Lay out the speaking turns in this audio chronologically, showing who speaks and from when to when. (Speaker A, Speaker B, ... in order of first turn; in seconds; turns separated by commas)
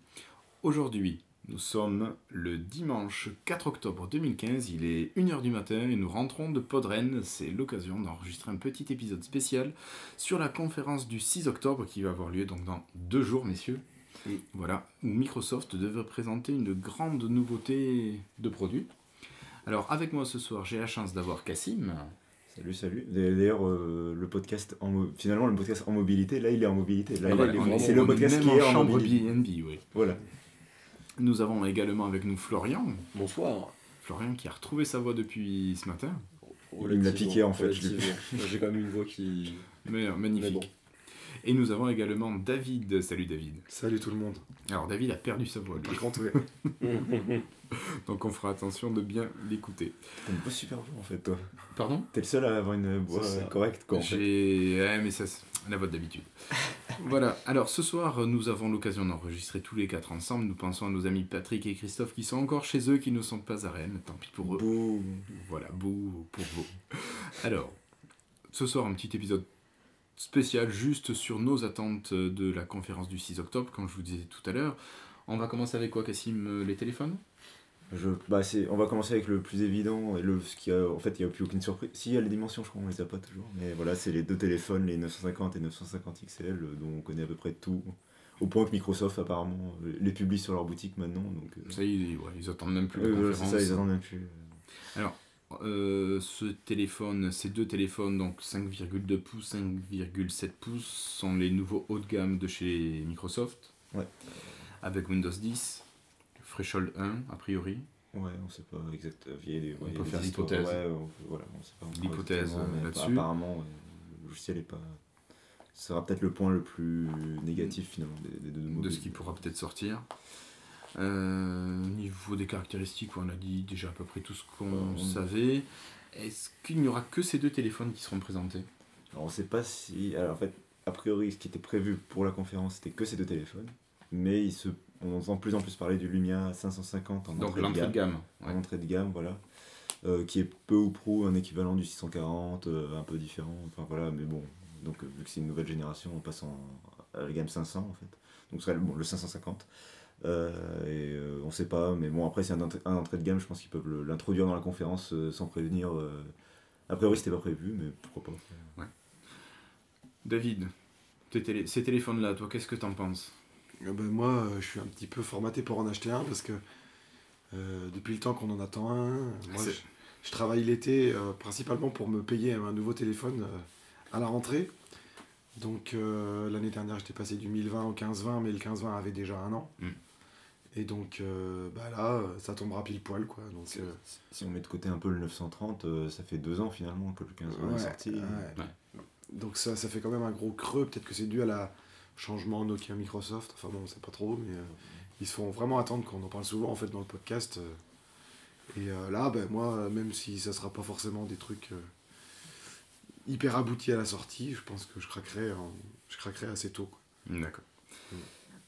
Speaker A: 0.6-13.8, Speaker A: 14.5-18.9, Speaker A: 19.6-22.1, Speaker B: 22.5-29.2, Speaker C: 27.2-28.1, Speaker A: 27.2-29.8, Speaker B: 29.9-30.2, Speaker A: 31.2-33.1, Speaker C: 33.1-33.7, Speaker A: 34.0-36.2, Speaker C: 36.5-39.7, Speaker B: 36.8-38.5, Speaker A: 39.8-40.7, Speaker C: 40.4-40.7, Speaker A: 41.4-43.7, Speaker D: 43.7-44.4, Speaker A: 44.7-46.4, Speaker D: 45.8-46.4, Speaker C: 46.8-47.4, Speaker A: 47.7-50.2, Speaker B: 50.2-51.4, Speaker A: 51.7-52.1, Speaker B: 52.1-54.3, Speaker C: 53.1-53.5, Speaker A: 53.9-64.7, Speaker B: 64.5-65.3, Speaker A: 65.3-67.8, Speaker A: 68.5-69.4, Speaker A: 70.2-77.2, Speaker B: 77.9-91.8, Speaker A: 91.7-93.8, Speaker B: 92.9-94.5, Speaker A: 94.9-103.7, Speaker A: 104.8-105.8, Speaker A: 106.4-107.8, Speaker B: 108.1-115.0, Speaker A: 109.9-110.8, Speaker A: 111.9-113.2, Speaker B: 115.7-119.3, Speaker A: 118.7-120.1, Speaker A: 120.9-128.7, Speaker B: 124.7-125.2, Speaker B: 129.1-139.4, Speaker A: 137.3-138.6, Speaker B: 140.0-149.7, Speaker B: 150.2-156.3, Speaker B: 156.9-158.7, Speaker A: 160.2-160.7, Speaker A: 161.3-163.3, Speaker D: 163.8-166.6, Speaker D: 167.5-174.7, Speaker A: 169.5-169.8, Speaker D: 175.6-179.7, Speaker D: 180.7-184.0, Speaker B: 183.7-188.5, Speaker D: 187.5-188.6, Speaker D: 189.3-197.8, Speaker D: 198.7-201.9, Speaker D: 203.2-207.0, Speaker A: 207.2-207.7